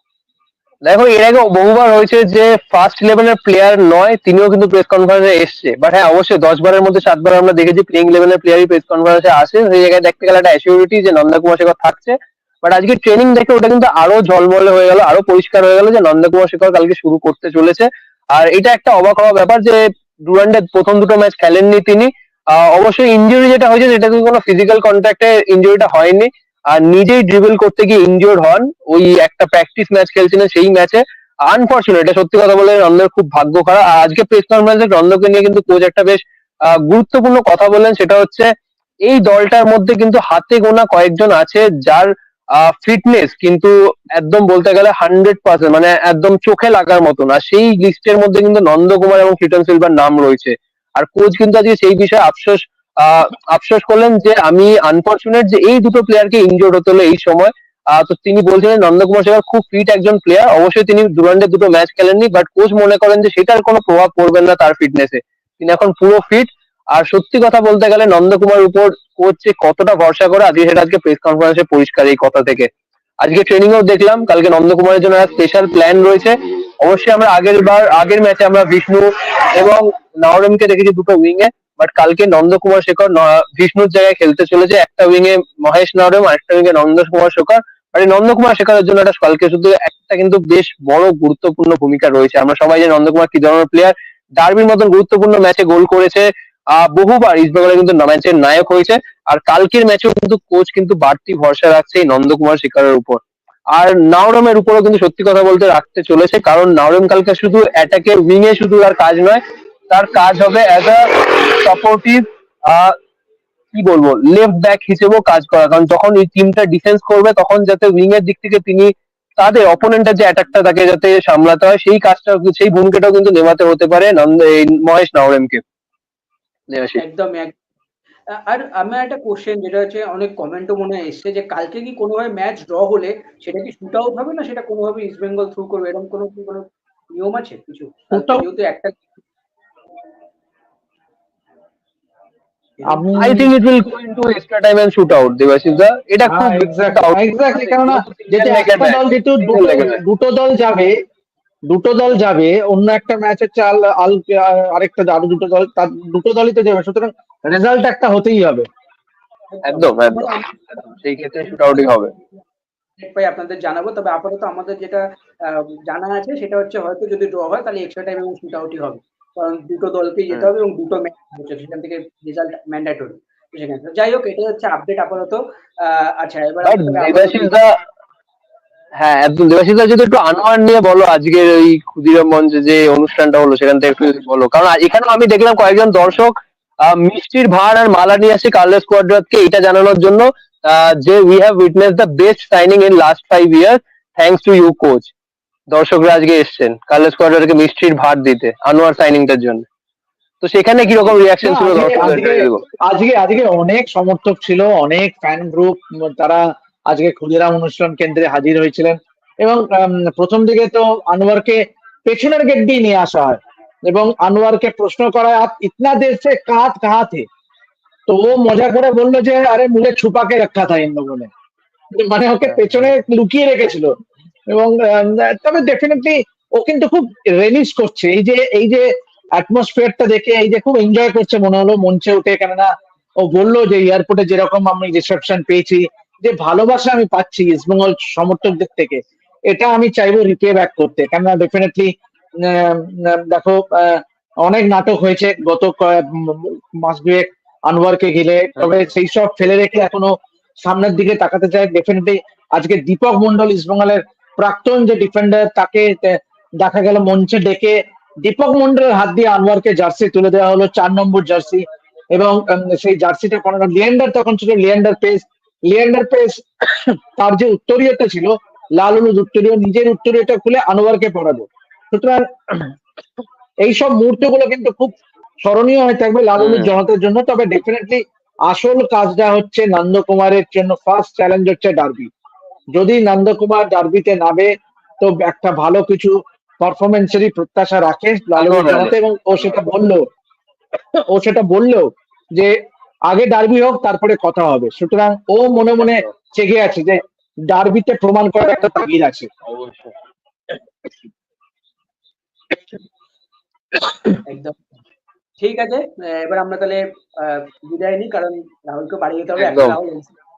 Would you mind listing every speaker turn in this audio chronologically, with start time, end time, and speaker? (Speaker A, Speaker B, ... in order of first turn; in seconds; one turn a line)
Speaker A: 0.8-38.5
Speaker A: 39.0-72.7
Speaker A: 73.2-103.2
Speaker A: 103.7-113.0
Speaker A: 113.7-125.6
Speaker A: 126.7-127.0
Speaker B: 127.0-127.6
Speaker B: 128.3-139.1
Speaker C: 138.1-138.5
Speaker B: 142.8-143.1
Speaker C: 142.8-143.5
Speaker A: 143.2-150.0
Speaker C: 146.3-150.9
Speaker C: 151.7-158.7
Speaker B: 159.5-162.3
Speaker A: 159.7-160.5
Speaker A: 161.0-162.1
Speaker B: 163.0-177.5
Speaker A: 176.7-177.8
Speaker A: 179.0-195.1
Speaker A: 195.7-199.7
Speaker A: 200.4-202.6
Speaker C: 201.4-217.3
Speaker C: 218.1-221.3
Speaker C: 222.0-223.9
Speaker A: 222.4-222.9
Speaker C: 224.5-250.1
Speaker C: 250.6-272.8
Speaker C: 273.6-282.1
Speaker A: 276.4-276.7
Speaker C: 282.8-290.0
Speaker A: 288.4-289.5
Speaker C: 290.9-292.5
Speaker C: 293.1-299.3
Speaker A: 295.8-296.1
Speaker A: 299.4-299.9
Speaker B: 304.3-304.7
Speaker B: 305.4-310.2
Speaker A: 309.4-309.8